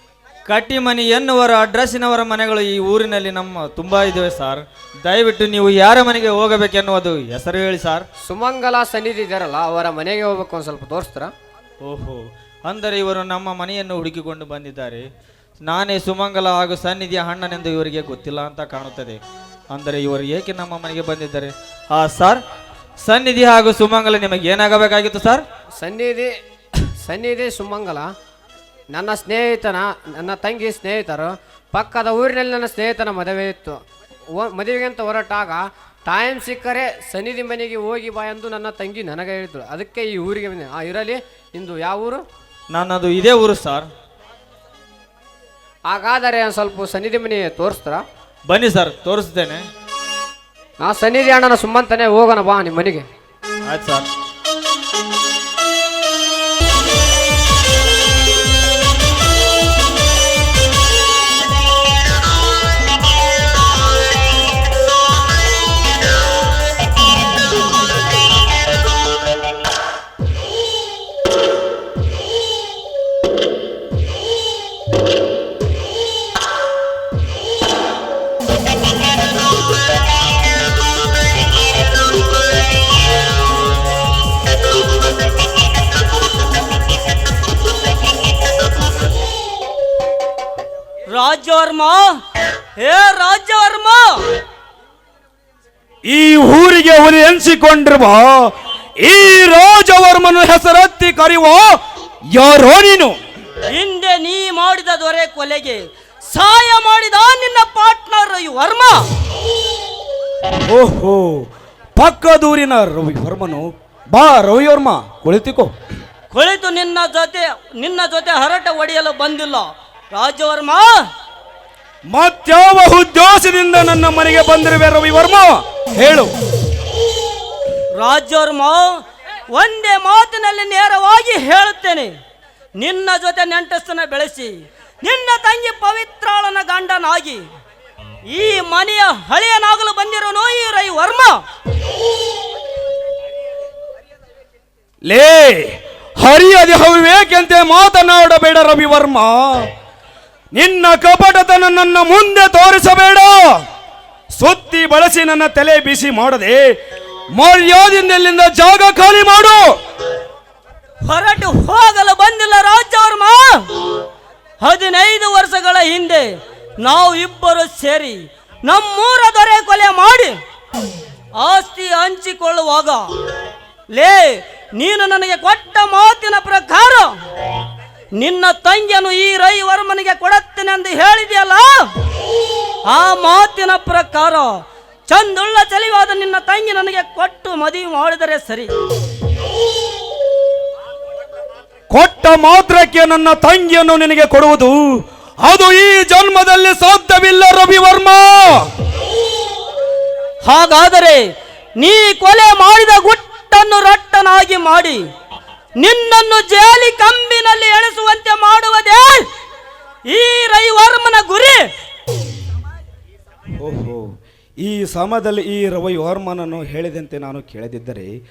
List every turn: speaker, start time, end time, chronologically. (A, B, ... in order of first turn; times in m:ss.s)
0:00.5-0:08.0 A
0:08.3-0:11.3 B
0:11.8-0:15.1 A
0:15.6-0:22.4 A
0:23.0-0:25.4 A
0:25.8-0:26.3 B
0:27.0-0:28.1 B
0:28.9-0:33.8 B
0:34.3-0:42.2 B
0:42.7-0:43.9 A
0:45.9-0:48.0 B
0:48.5-0:49.6 A
0:50.8-0:53.0 B
0:53.7-0:54.0 A
1:31.1-1:32.1 C
1:32.8-1:34.3 C
1:36.0-1:41.7 D
1:42.3-1:43.2 D
1:43.6-1:49.0 C
1:50.5-1:51.4 D
1:52.0-1:55.7 D
1:56.3-2:01.0 C
2:02.1-2:06.3 D
2:07.9-2:08.9 C
2:09.5-2:12.1 C
2:12.8-2:17.4 C
2:18.3-2:21.4 C
2:25.0-2:29.6 D
2:30.5-2:33.6 D
2:34.3-2:36.7 D
2:37.4-2:39.7 D
2:41.0-2:43.6 C
2:44.6-2:50.4 C
2:51.4-2:53.1 C
2:53.9-2:57.2 C
2:58.1-3:01.9 C
3:02.8-3:08.7 C
3:11.9-3:14.9 D
3:15.4-3:18.6 D
3:20.4-3:25.0 C
3:25.8-3:29.2 C
3:30.1-3:31.6 C
3:33.6-3:34.0 D
3:34.6-3:38.1 D